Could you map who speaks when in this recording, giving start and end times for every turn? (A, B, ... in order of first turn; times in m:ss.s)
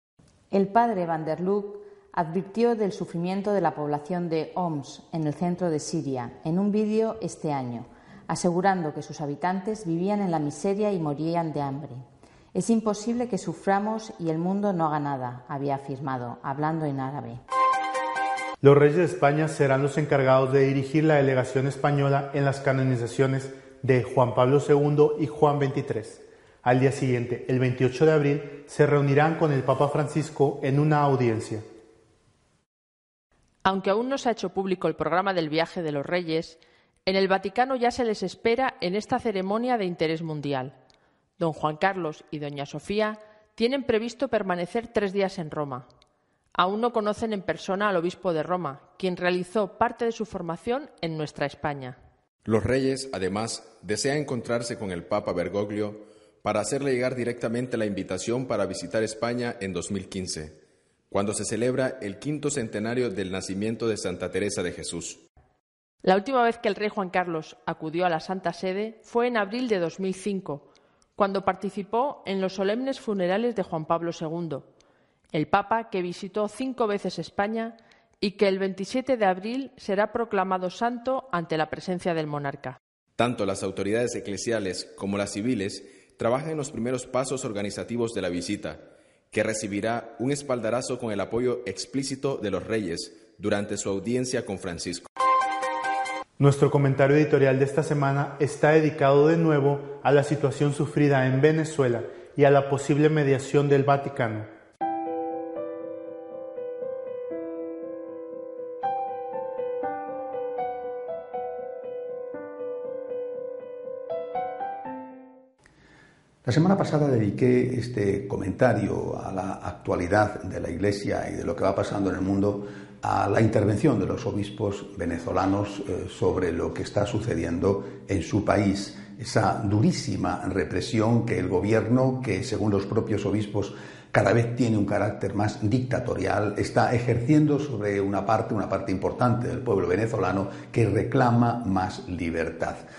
0:00.5-0:12.0 A
0:12.5-0:17.4 A
0:18.6-0:31.6 B
0:33.6-0:40.8 C
0:41.4-0:45.9 C
0:46.6-0:52.0 C
0:52.4-1:00.6 D
1:01.1-1:05.2 D
1:06.0-1:10.6 C
1:11.2-1:14.7 C
1:15.3-1:22.8 C
1:23.2-1:28.8 D
1:29.3-1:35.0 D
1:36.4-1:44.5 B
1:56.4-2:22.8 E